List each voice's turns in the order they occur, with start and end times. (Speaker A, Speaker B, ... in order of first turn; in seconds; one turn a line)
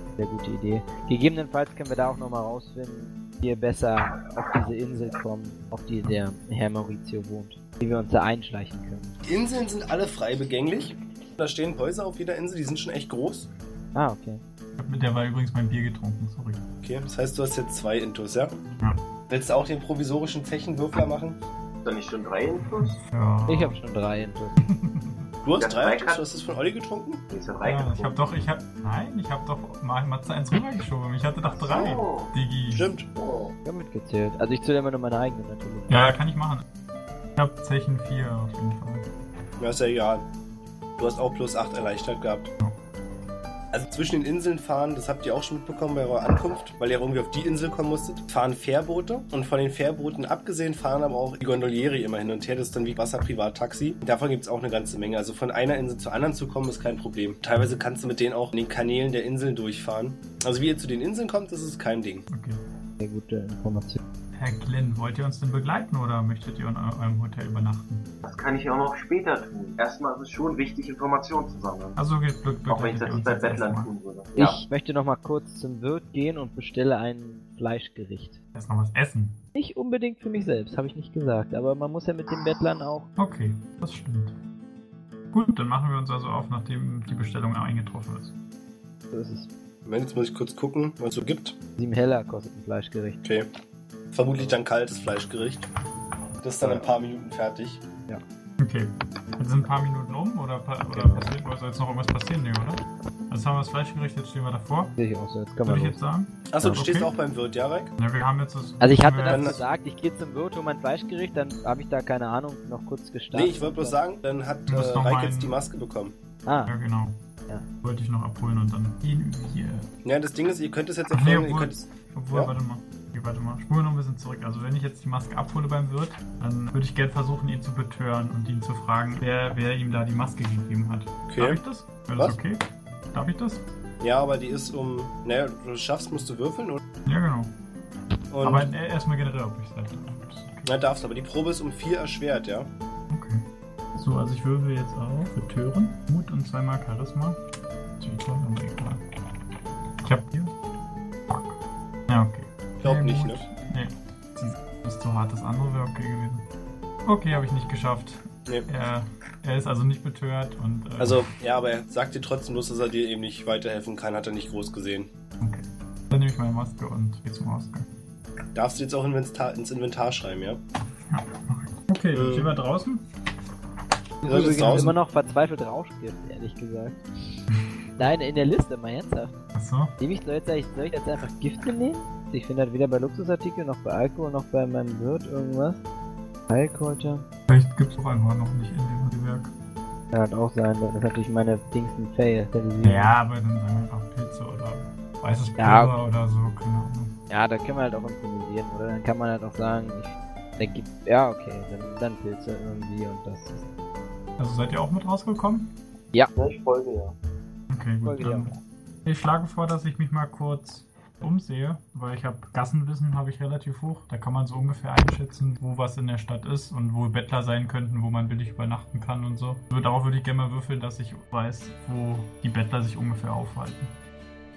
Speaker A: 0.2-9.1
Speaker B: 9.2-13.5
Speaker A: 13.9-14.4
Speaker C: 14.8-16.6
Speaker B: 16.8-18.6
Speaker B: 19.3-21.4
Speaker D: 21.8-23.0
Speaker C: 22.8-23.8
Speaker A: 23.5-24.6
Speaker C: 24.6-25.3
Speaker B: 25.4-27.2
Speaker D: 25.6-26.4
Speaker D: 27.3-28.2
Speaker C: 27.6-32.9
Speaker D: 31.5-32.3
Speaker B: 32.7-33.1
Speaker D: 33.1-33.5
Speaker A: 33.6-36.0
Speaker C: 35.9-36.6
Speaker C: 37.4-39.1
Speaker B: 39.6-40.2
Speaker B: 41.0-42.5
Speaker B: 43.7-62.3
Speaker C: 62.3-62.6
Speaker A: 63.0-64.0
Speaker C: 64.3-68.1
Speaker D: 68.2-72.0
Speaker C: 72.0-73.9
Speaker D: 72.7-74.6
Speaker A: 74.3-78.4
Speaker C: 78.5-79.4
Speaker A: 79.5-83.1
Speaker C: 83.2-84.3
Speaker C: 85.3-88.3
Speaker A: 89.1-89.5
Speaker B: 89.8-91.5
Speaker A: 91.8-93.2
Speaker B: 93.2-93.5
Speaker B: 94.1-95.7
Speaker B: 96.4-97.8
Speaker A: 96.6-96.9
Speaker C: 98.6-104.9
Speaker A: 100.9-101.3
Speaker A: 105.0-106.0
Speaker C: 105.7-107.1
Speaker B: 106.5-107.9
Speaker C: 108.0-109.6
Speaker A: 108.8-114.0
Speaker B: 109.3-109.6
Speaker B: 113.3-116.2
Speaker C: 114.7-115.6
Speaker A: 116.5-116.7
Speaker C: 116.7-117.2
Speaker C: 117.8-119.9
Speaker B: 120.0-122.5
Speaker C: 121.1-132.6
Speaker B: 131.3-131.6
Speaker C: 133.1-133.6
Speaker B: 134.0-136.8
Speaker C: 137.0-137.5
Speaker B: 138.3-138.7
Speaker C: 138.4-140.7
Speaker B: 140.7-142.7
Speaker C: 143.1-143.4
Speaker C: 143.9-147.4
Speaker C: 148.0-149.0
Speaker C: 150.0-150.5
Speaker C: 151.3-151.6
Speaker C: 152.1-156.4
Speaker B: 152.8-153.4
Speaker C: 157.0-161.3
Speaker B: 161.0-165.1
Speaker C: 165.4-167.8
Speaker B: 168.5-170.6
Speaker C: 171.1-173.0
Speaker B: 172.1-172.5
Speaker A: 174.2-177.4
Speaker B: 174.2-174.9
Speaker C: 174.6-174.9
Speaker A: 178.0-179.4
Speaker C: 179.5-179.9
Speaker A: 180.0-185.8
Speaker A: 186.5-187.2
Speaker C: 187.5-189.5
Speaker A: 190.1-193.1
Speaker C: 192.8-197.1
Speaker A: 195.6-196.0
Speaker A: 197.3-203.7
Speaker C: 204.4-205.7
Speaker D: 206.3-207.1
Speaker C: 207.7-223.9
Speaker A: 208.0-208.5